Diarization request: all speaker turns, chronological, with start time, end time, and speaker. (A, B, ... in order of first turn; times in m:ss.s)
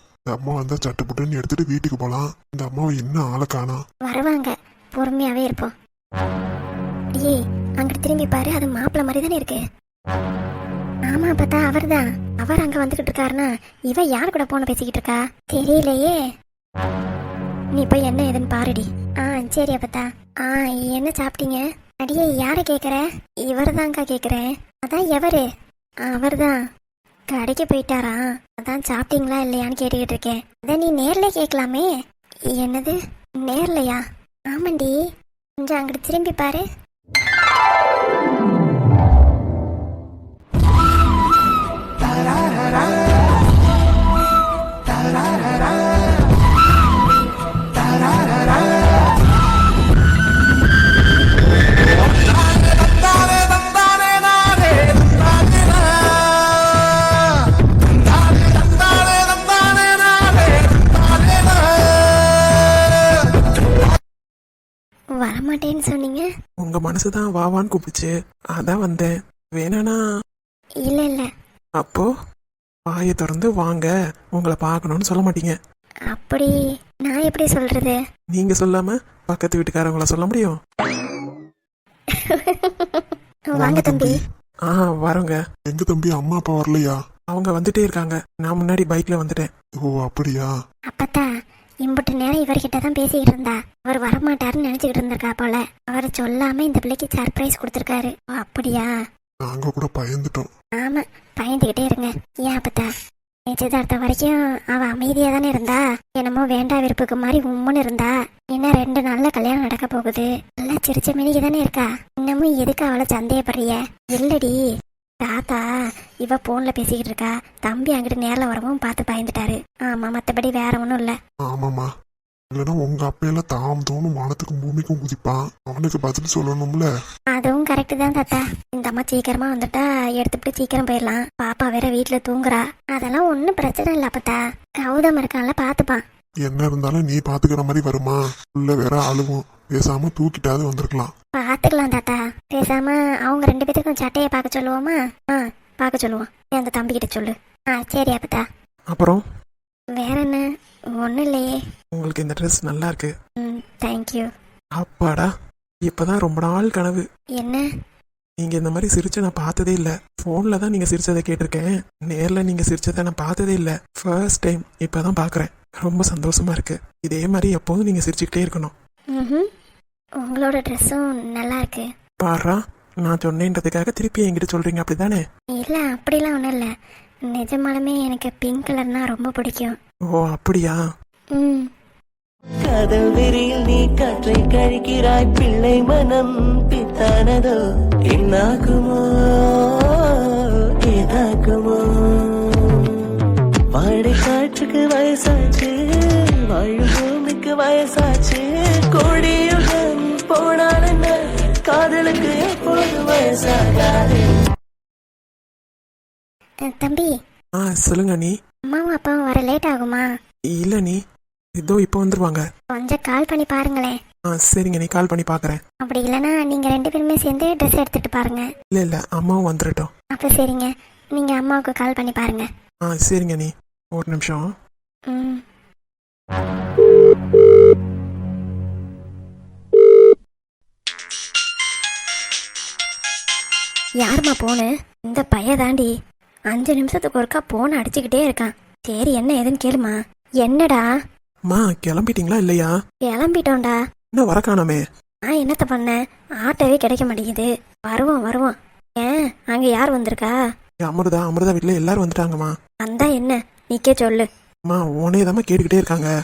0:00.3-0:03.8 A
0:04.0-0:05.7 B
0:07.1-0:09.6 B
0:11.1-0:16.1 B
0:17.7-0:25.4 B
0:26.0-0:26.6 B
0:27.3-0:31.9 B
0:32.5-0:35.0 B
0:35.6-0:36.6 B
0:53.4-0:53.9 C
0:55.5-0:55.8 C
0:58.4-1:01.4 C
1:05.2-1:06.2 B
1:06.6-1:10.0 C
1:10.8-1:11.3 B
1:11.8-1:12.1 C
1:12.9-1:15.5 C
1:16.1-1:18.0 B
1:18.3-1:20.6 C
1:22.1-1:24.2 B
1:23.5-1:25.4 C
1:25.7-1:27.0 A
1:27.3-1:29.5 C
1:29.8-1:30.5 A
1:30.9-1:31.3 B
1:31.8-1:38.9 B
1:39.4-1:40.5 A
1:40.8-1:42.9 B
1:43.5-1:54.6 B
1:55.2-1:55.7 B
1:56.2-2:01.1 B
2:01.4-2:01.9 A
2:02.5-2:06.9 A
2:07.3-2:16.0 B
2:16.4-2:21.1 A
2:21.3-2:28.4 B
2:28.9-2:29.2 C
2:30.0-2:31.5 B
2:31.9-2:33.1 C
2:33.4-2:34.3 B
2:34.8-2:35.3 C
2:35.8-2:37.0 C
2:37.4-2:37.7 B
2:38.4-2:48.7 C
2:49.1-2:49.5 B
2:50.2-2:51.9 B
2:52.2-2:55.2 C
2:55.6-2:56.7 B
2:57.3-2:59.8 B
3:00.1-3:00.8 C
3:01.3-3:01.7 B
3:02.6-3:13.0 D
3:13.7-3:15.7 D
3:16.5-3:21.1 D
3:21.7-3:24.3 D
3:26.6-3:27.1 B
3:27.6-3:28.3 C
3:28.7-3:30.1 B
3:30.5-3:31.0 C
3:31.6-3:32.4 C
3:32.7-3:34.0 B
3:34.3-3:35.6 C
3:35.8-3:38.4 B
3:38.7-3:39.9 C
3:40.1-3:42.5 B
3:42.9-3:44.4 C
3:45.1-3:45.4 B
3:54.0-3:55.9 B
3:56.5-4:00.8 B
4:01.5-4:02.7 C
4:03.0-4:03.8 B
4:04.1-4:04.8 C
4:05.3-4:10.3 B
4:10.8-4:12.5 C
4:12.8-4:14.3 B
4:14.7-4:16.1 C